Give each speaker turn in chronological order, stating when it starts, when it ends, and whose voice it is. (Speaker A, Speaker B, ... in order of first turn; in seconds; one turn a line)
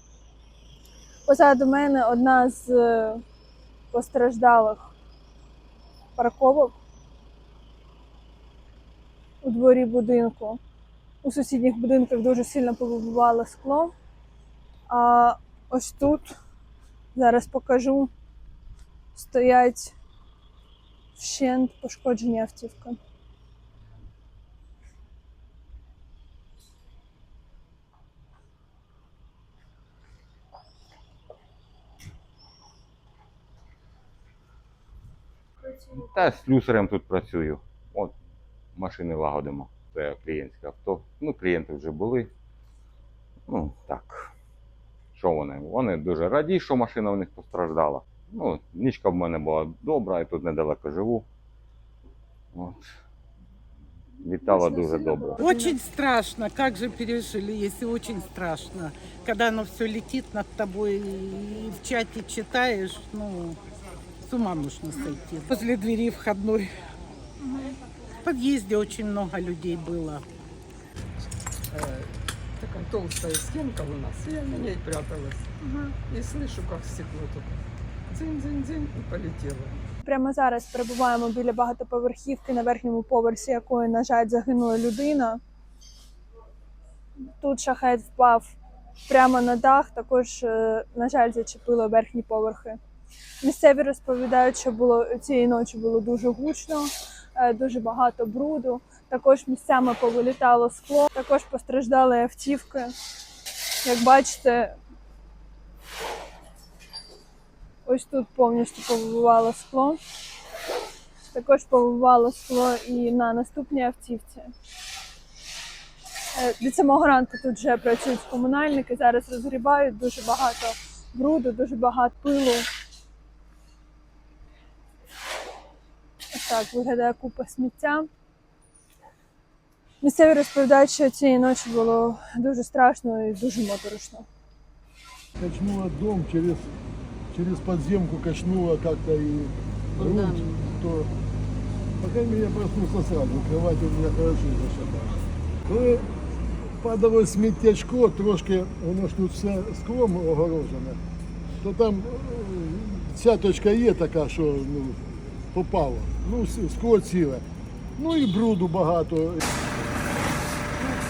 Speaker A: 1.2-3.2
Speaker A: 3.9-4.9
Speaker A: 6.2-6.7
Speaker A: 9.4-10.6
Speaker A: 11.2-13.9
Speaker A: 14.9-16.3
Speaker A: 17.1-18.1
Speaker A: 19.1-19.9
Speaker A: 21.1-23.0
Speaker B: 35.9-38.1
Speaker B: 38.8-42.3
Speaker B: 43.5-44.3
Speaker B: 45.1-51.2
Speaker B: 52.5-52.8
Speaker B: 54.2-55.4
Speaker A: 54.6-55.8
Speaker C: 55.4-63.6
Speaker C: 64.2-66.7
Speaker C: 68.2-70.2
Speaker D: 71.7-75.5
Speaker A: 75.6-75.9
Speaker D: 76.0-79.8
Speaker A: 80.0-85.4
Speaker A: 87.4-88.5
Speaker A: 89.1-92.8
Speaker A: 93.4-102.9
Speaker A: 103.8-104.8
Speaker A: 107.8-110.0
Speaker A: 111.3-114.5
Speaker A: 116.3-122.6
Speaker A: 126.3-128.1
Speaker A: 130.0-134.2
Speaker E: 135.4-136.7
Speaker E: 137.3-141.1
Speaker C: 140.0-140.5
Speaker E: 142.0-146.1
Speaker E: 146.8-151.0
Speaker E: 151.6-157.4
Speaker E: 158.0-159.4